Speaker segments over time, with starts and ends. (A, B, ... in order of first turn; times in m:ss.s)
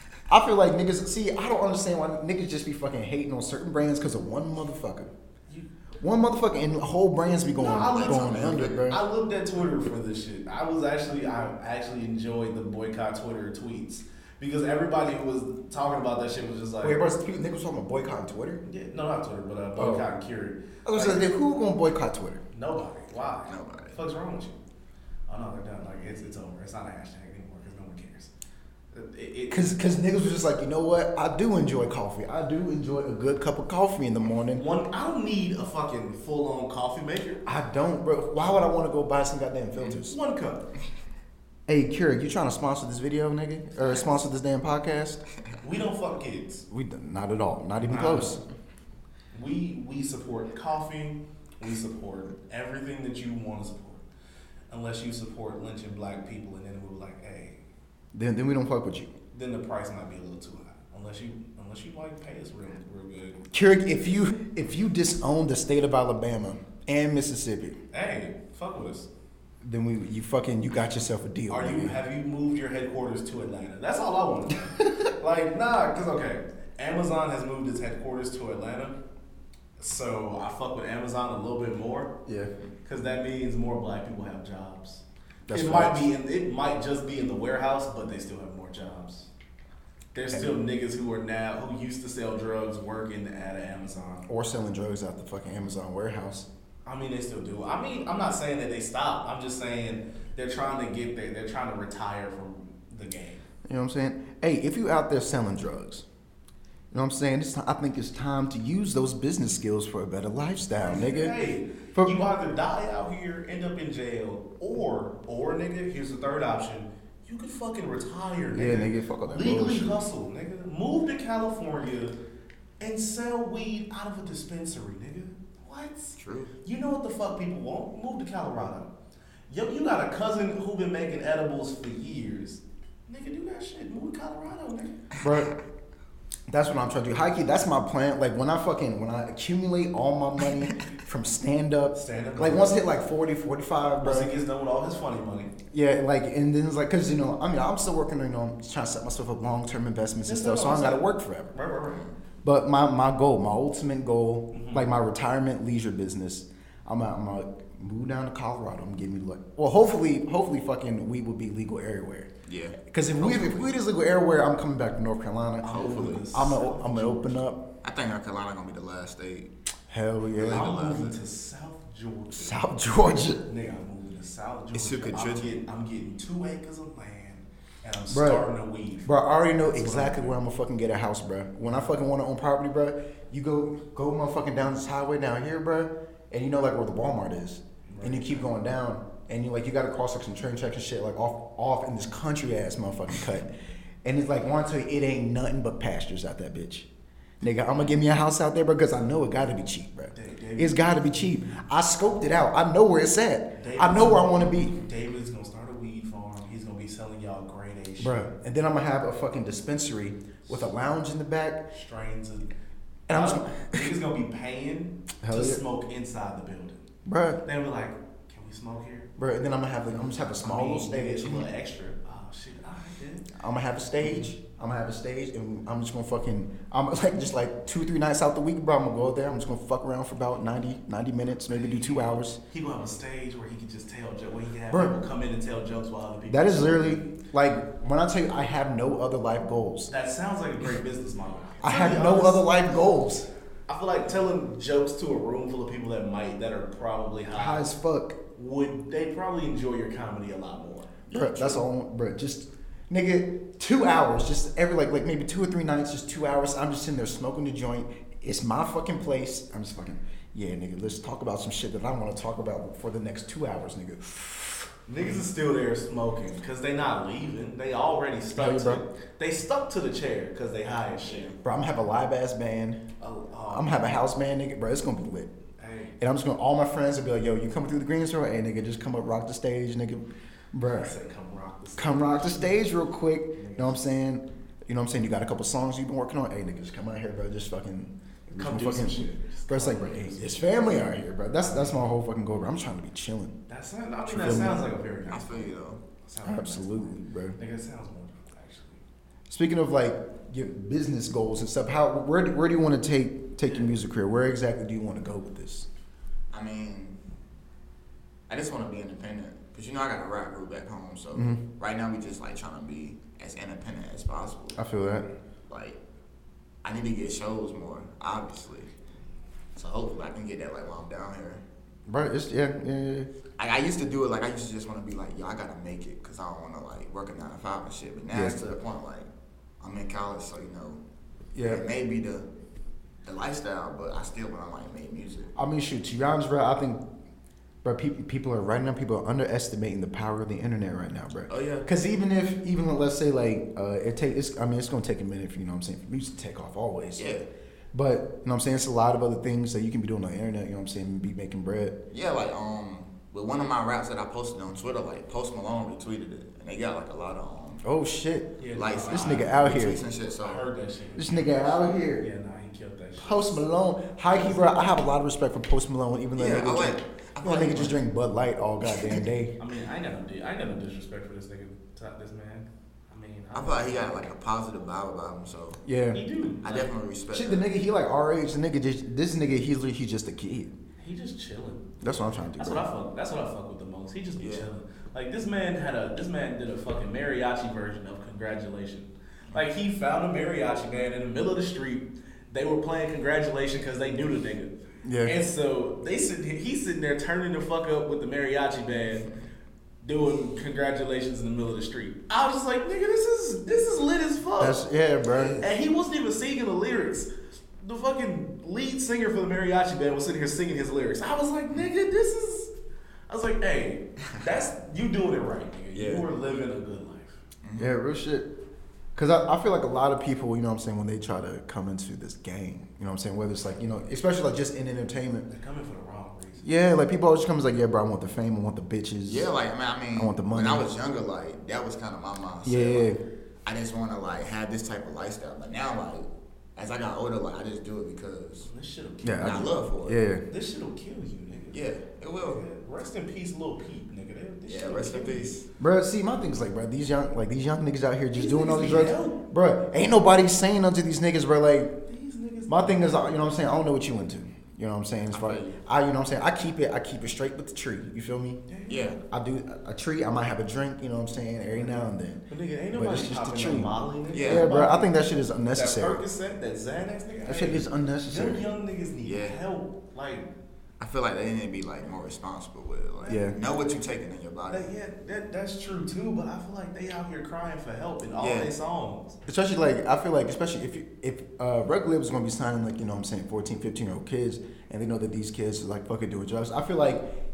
0:00.3-0:05.1 A
0:06.0-0:09.0 A
0:07.6-0:17.0 B
0:07.8-0:08.8 C
0:16.8-0:18.6 A
0:18.6-0:21.3 B
0:19.8-0:20.1 A
0:20.8-0:22.4 A
0:22.5-0:24.6 B
0:23.5-0:24.0 C
0:25.3-0:28.3 B
0:28.9-0:29.7 B
0:29.5-0:34.6 A
0:34.5-0:37.4 B
0:37.4-0:40.2 A
0:39.8-0:40.6 B
0:41.7-0:45.2 A
0:45.6-0:46.6 B
0:46.7-0:48.4 A
0:47.8-0:48.4 B
0:49.3-0:54.0 B
0:54.7-0:57.6 B
0:58.1-0:59.1 A
0:59.3-1:03.4 B
1:03.5-1:07.8 A
1:07.9-1:09.1 B
1:09.6-1:12.0 A
1:11.5-1:19.0 B
1:19.8-1:22.1 B
1:22.2-1:22.5 A
1:22.8-1:29.3 B
1:25.5-1:26.1 A
1:30.1-1:34.2 B
1:34.3-1:36.5 A
1:36.8-1:43.4 B
1:43.6-1:46.0 A
1:46.9-1:51.3 A
1:50.8-2:02.1 B
1:51.9-1:52.2 A
1:58.5-2:00.0 A
2:02.8-2:08.9 B
2:06.2-2:06.5 C
2:09.5-2:14.9 B
2:15.2-2:15.6 C
2:15.2-2:15.5 A
2:16.5-2:24.3 A
2:21.9-2:22.7 B
2:24.0-2:25.5 B
2:25.7-2:31.5 A
2:30.2-2:32.1 B
2:32.4-2:47.7 A
2:34.5-2:34.9 B
2:42.5-2:42.8 C
2:43.2-2:43.7 B
2:45.6-2:47.4 B
2:47.8-2:49.5 C
2:49.9-2:51.1 A
2:50.3-2:51.2 C
2:50.4-2:52.6 B
2:52.4-2:53.4 A
2:53.4-2:59.1 B
2:54.7-2:55.6 C
2:58.1-2:58.4 A
2:59.0-3:13.5 A
2:59.6-3:00.4 B
3:07.8-3:08.5 B
3:14.0-3:16.9 A
3:17.4-3:24.8 A
3:20.1-3:21.0 B
3:23.6-3:28.3 B
3:28.0-3:31.6 A
3:31.7-3:32.5 B
3:33.1-3:33.9 A
3:33.1-3:36.8 B
3:35.2-3:35.6 A
3:37.0-3:37.4 A
3:37.4-3:39.1 B
3:39.2-3:41.5 A
3:40.4-3:43.3 B
3:43.3-3:52.4 A
3:51.8-3:57.1 B
3:54.7-3:55.0 A
3:56.3-3:59.9 A
3:59.9-4:02.5 B
4:01.6-4:03.3 A
4:03.7-4:07.7 B
4:07.3-4:08.2 A
4:08.4-4:11.6 B
4:11.1-4:25.1 A
4:24.9-4:31.3 B
4:28.4-4:28.8 A
4:31.0-4:31.4 C
4:31.4-4:32.8 A
4:33.0-4:33.9 B
4:33.5-4:35.3 A
4:35.6-4:35.9 B
4:36.0-4:40.9 A
4:40.6-4:42.6 B
4:41.8-4:53.4 A
4:43.4-4:43.8 B
4:48.3-4:50.6 B
4:53.5-4:55.5 B
4:54.0-4:54.6 A
4:55.1-4:55.8 C
4:56.0-4:58.8 B
4:56.2-4:57.4 A
4:59.3-5:05.7 A
5:03.4-5:03.7 B
5:06.3-5:07.0 C
5:08.3-5:14.6 C
5:11.1-5:11.4 A
5:14.6-5:15.1 A
5:15.5-5:15.8 C
5:16.6-5:18.7 C
5:19.5-5:21.4 C
5:21.9-5:23.1 A
5:23.4-5:29.1 C
5:28.1-5:28.6 A
5:29.6-5:30.8 C
5:31.3-5:31.6 A
5:31.4-5:32.3 C
5:33.0-5:35.3 C
5:35.4-5:36.8 A
5:37.6-5:47.1 A
5:41.3-5:41.7 C
5:47.0-5:47.3 C
5:47.7-5:51.8 A
5:51.9-5:57.6 C
5:57.6-5:59.8 A
5:58.4-5:59.4 B
5:58.5-6:00.4 C
6:00.2-6:03.4 B
6:01.0-6:02.0 A
6:03.0-6:09.4 A
6:04.1-6:04.6 B
6:06.2-6:07.8 C
6:09.4-6:14.1 B
6:13.3-6:15.6 C
6:15.6-6:16.0 A
6:15.9-6:16.7 B
6:16.4-6:17.4 C
6:17.1-6:20.5 A
6:20.8-6:21.8 B
6:21.8-6:22.6 A
6:22.3-6:39.0 B
6:24.2-6:24.5 C
6:34.8-6:35.2 A
6:39.8-6:44.6 B
6:44.4-6:45.4 A
6:45.4-6:52.5 B
6:53.1-6:57.2 B
6:55.7-6:56.0 C
6:57.4-6:57.7 C
6:57.6-6:58.3 A
6:58.9-7:05.3 A
7:05.3-7:06.6 B
7:06.4-7:09.3 A
7:09.0-7:12.9 C
7:09.9-7:10.6 A
7:12.4-7:13.0 A
7:13.4-7:18.5 C
7:18.4-7:19.5 B
7:19.0-7:20.2 A
7:19.2-7:20.0 C
7:20.3-7:21.6 B
7:21.5-7:22.4 C
7:22.2-7:25.3 B
7:24.5-7:25.5 C
7:25.6-7:31.8 A
7:28.1-7:29.2 B
7:31.9-7:33.2 B
7:32.5-7:38.4 A
7:35.1-7:35.6 C
7:38.5-7:38.9 B
7:38.7-7:39.0 C
7:39.1-7:46.0 A
7:41.5-7:44.9 B
7:44.1-7:44.5 C
7:45.5-7:50.3 B
7:47.2-7:48.4 A
7:49.0-7:49.4 C
7:50.8-7:54.7 C
7:53.0-7:53.4 B
7:53.1-7:53.4 A
7:54.5-7:59.2 B
7:58.2-7:58.5 C
7:59.2-8:07.1 A